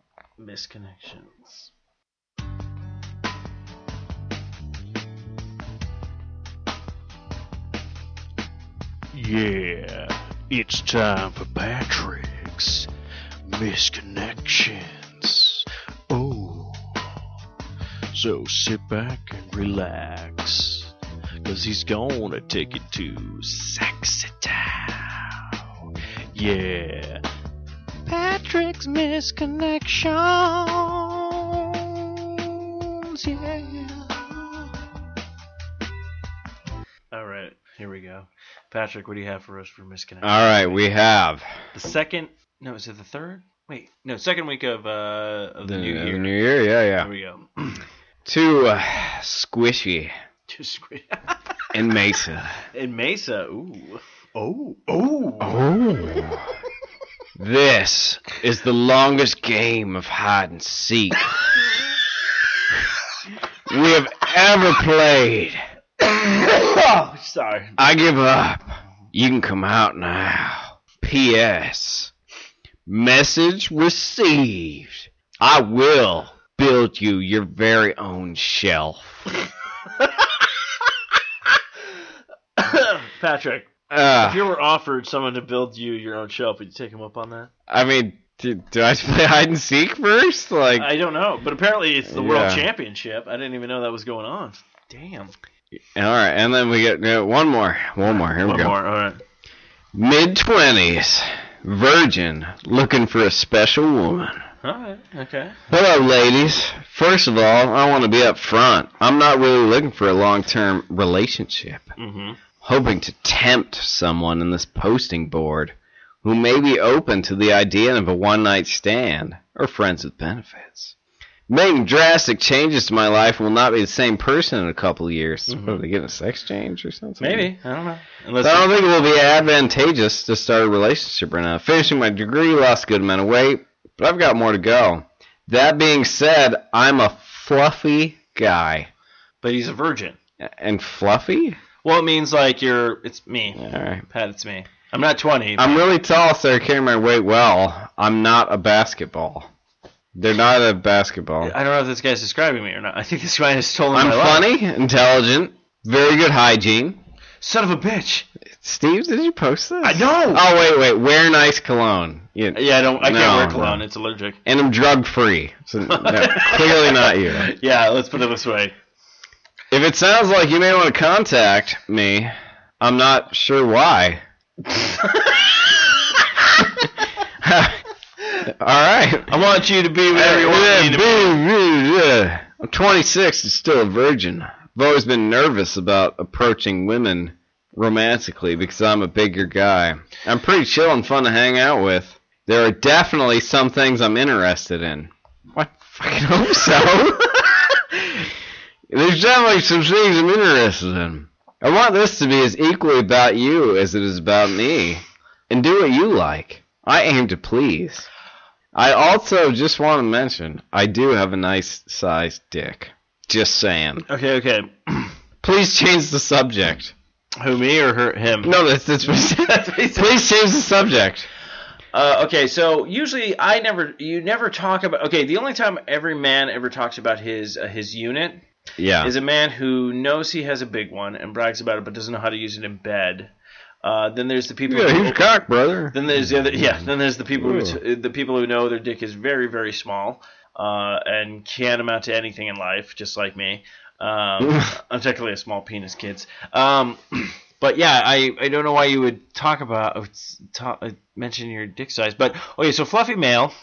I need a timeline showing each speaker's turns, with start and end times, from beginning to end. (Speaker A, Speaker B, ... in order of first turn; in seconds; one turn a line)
Speaker A: 0.4-1.7
Speaker B: 9.1-12.9
Speaker B: 13.4-16.9
Speaker B: 18.1-25.5
Speaker B: 26.3-27.2
Speaker B: 28.1-34.5
Speaker A: 37.1-40.8
Speaker C: 40.2-41.5
Speaker A: 41.7-46.4
Speaker C: 45.6-47.1
Speaker A: 47.0-47.8
Speaker C: 48.2-50.1
Speaker A: 50.5-51.4
Speaker C: 51.7-52.6
Speaker A: 52.7-55.6
Speaker C: 55.4-56.5
Speaker C: 57.4-61.2
Speaker C: 63.7-65.6
Speaker A: 66.0-67.8
Speaker C: 67.8-72.1
Speaker C: 72.9-79.2
Speaker A: 82.6-87.5
Speaker C: 83.9-84.4
Speaker C: 87.7-90.9
Speaker A: 90.8-95.3
Speaker C: 92.1-92.7
Speaker C: 95.9-98.8
Speaker A: 98.0-99.2
Speaker C: 99.9-104.4
Speaker A: 104.6-105.6
Speaker C: 105.7-111.9
Speaker A: 112.0-112.4
Speaker C: 112.6-120.9
Speaker C: 121.5-127.5
Speaker A: 125.5-125.8
Speaker A: 127.2-128.7
Speaker C: 128.4-138.9
Speaker A: 139.4-140.2
Speaker C: 140.4-141.6
Speaker A: 141.8-145.8
Speaker C: 143.6-144.0
Speaker C: 145.6-149.5
Speaker C: 150.1-151.5
Speaker A: 151.4-154.4
Speaker C: 153.9-157.0
Speaker A: 157.4-158.3
Speaker C: 158.5-163.8
Speaker A: 159.8-160.4
Speaker A: 162.5-164.4
Speaker C: 164.4-167.5
Speaker A: 165.9-168.7
Speaker C: 169.7-174.2
Speaker A: 174.7-175.6
Speaker C: 177.4-177.8
Speaker C: 178.5-179.3
Speaker A: 179.3-181.4
Speaker C: 180.1-198.3
Speaker C: 198.9-208.1
Speaker C: 208.7-214.1
Speaker A: 214.1-215.1
Speaker C: 215.4-216.9
Speaker A: 217.4-218.6
Speaker C: 218.4-221.3
Speaker A: 219.3-220.2
Speaker A: 221.9-228.4
Speaker C: 228.8-229.1
Speaker A: 229.0-233.3
Speaker A: 233.8-253.5
Speaker C: 234.7-235.9
Speaker C: 237.4-237.8